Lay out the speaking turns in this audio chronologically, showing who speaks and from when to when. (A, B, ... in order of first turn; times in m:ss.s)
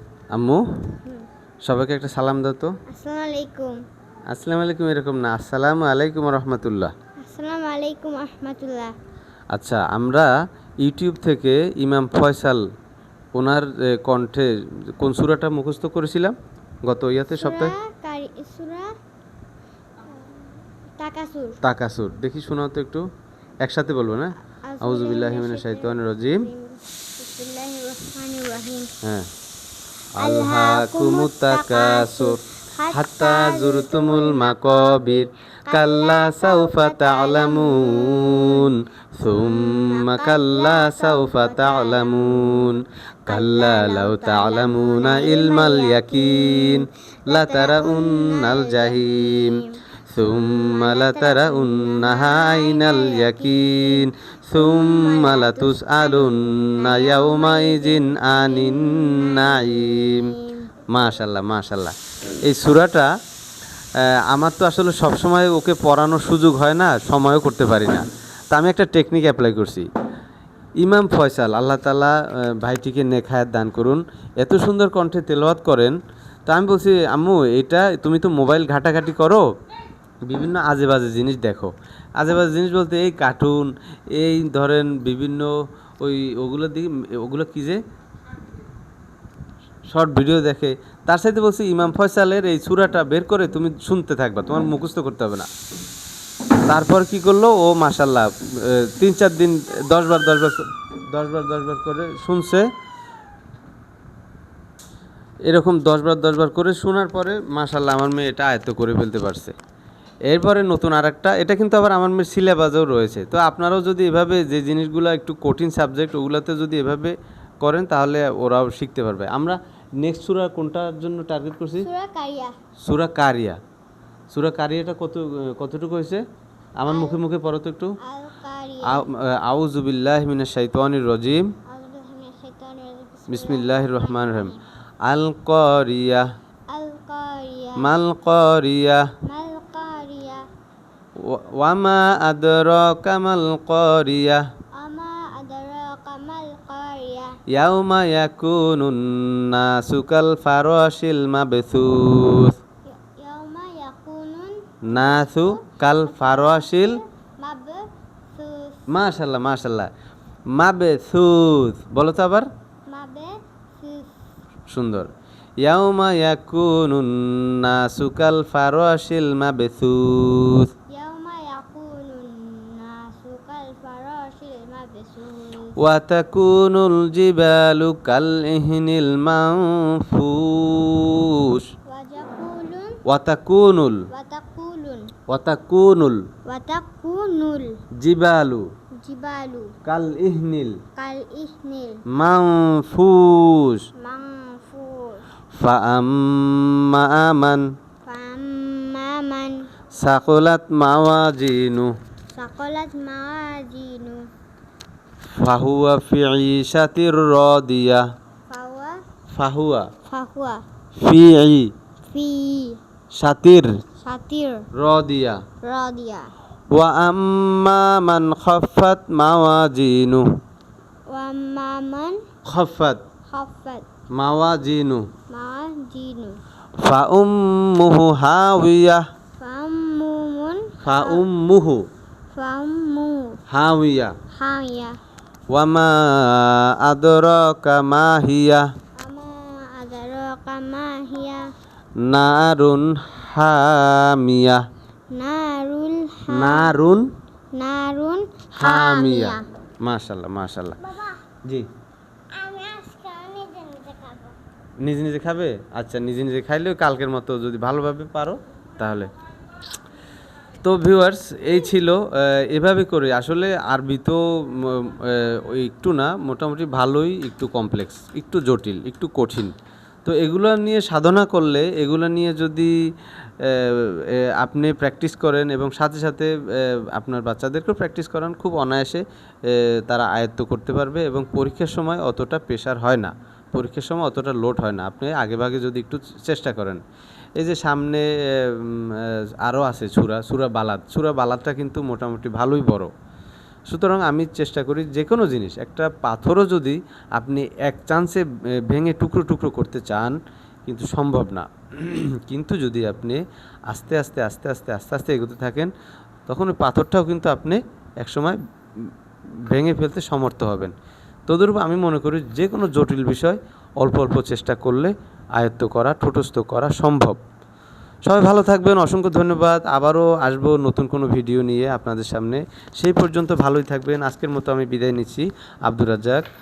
0:00.3-0:00.6 A
0:01.6-0:02.7 A
0:02.9-0:03.7 B
0:04.3-0:06.9 A
0:07.2-0:08.9 B
0:09.5-0:10.3 A
0:10.8-0:12.6 A
0:13.3-0:17.7 A
0:17.4-0:18.9 B
0:20.0-0:21.6 B
0:21.6-0:23.0 A
0:23.6-0:26.5 A
0:24.6-0:28.9 B
0:29.0-0:29.3 A
0:30.2-0:32.4 A
0:30.2-0:38.7 B
0:32.9-1:00.3 A
0:39.2-0:42.7 B
0:43.3-1:00.7 B
1:00.9-1:03.1 A
1:04.0-1:09.9 A
1:10.8-1:19.4 A
1:20.3-1:27.8 A
1:29.9-1:35.5 A
1:36.6-1:42.7 A
1:45.4-1:49.6 A
1:50.3-2:01.9 A
2:01.8-2:02.5 B
2:02.8-2:03.6 A
2:04.3-2:06.2 A
2:06.8-2:07.9 A
2:06.9-2:07.2 B
2:08.0-2:09.0 B
2:08.8-2:11.5 A
2:11.7-2:14.6 B
2:13.3-2:14.5 A
2:15.0-2:16.2 A
2:16.7-2:17.9 B
2:17.8-2:19.1 A
2:19.2-2:20.4 B
2:21.2-2:24.4 A
2:24.8-2:27.3 B
2:27.5-2:32.5 A
2:32.8-2:39.1 B
2:34.9-2:37.0 A
2:38.9-2:39.9 A
2:40.5-2:42.5 A
2:42.9-2:44.2 B
2:44.7-2:45.1 A
2:45.6-2:50.7 A
2:50.9-2:55.8 B
2:55.8-3:01.6 A
3:01.8-3:03.0 B
3:03.1-3:04.0 A
3:04.1-3:05.1 B
3:05.3-3:06.2 A
3:06.4-3:07.8 B
3:08.0-3:08.6 A
3:09.0-3:09.8 B
3:09.8-3:10.8 A
3:11.0-3:12.0 B
3:12.1-3:13.8 A
3:14.0-3:15.3 B
3:15.5-3:17.6 A
3:18.0-3:19.6 B
3:19.9-3:21.9 A
3:22.3-3:24.2 B
3:25.4-3:28.0 A
3:28.5-3:29.0 B
3:29.3-3:29.9 A
3:30.0-3:30.6 B
3:31.0-3:31.7 A
3:32.0-3:32.8 B
3:33.2-3:33.7 A
3:34.0-3:34.6 B
3:34.8-3:35.4 A
3:35.6-3:36.3 B
3:36.7-3:40.2 A
3:41.1-3:42.2 B
3:42.4-3:43.0 A
3:43.3-3:43.8 B
3:44.1-3:45.0 A
3:45.3-3:46.4 B
3:46.8-3:49.0 A
3:49.4-3:51.2 B
3:50.8-3:51.8 A
3:52.3-3:53.4 B
3:53.5-3:54.2 A
3:54.3-3:55.0 B
3:55.5-3:58.6 A
3:59.0-4:01.4 B
4:02.0-4:04.6 A
4:05.1-4:06.8 B
4:06.3-4:07.0 A
4:07.5-4:09.4 B
4:08.5-4:10.8 A
4:10.9-4:11.1 B
4:12.3-4:14.4 B
4:14.8-4:19.1 A
4:20.6-4:29.5 A
4:30.0-4:32.7 A
4:33.4-4:46.8 A
4:47.4-4:52.9 A
4:53.7-5:03.2 A
5:03.7-5:05.7 A
5:06.3-5:08.9 A
5:09.5-5:10.7 A
5:11.3-5:17.2 A
5:18.0-5:26.2 A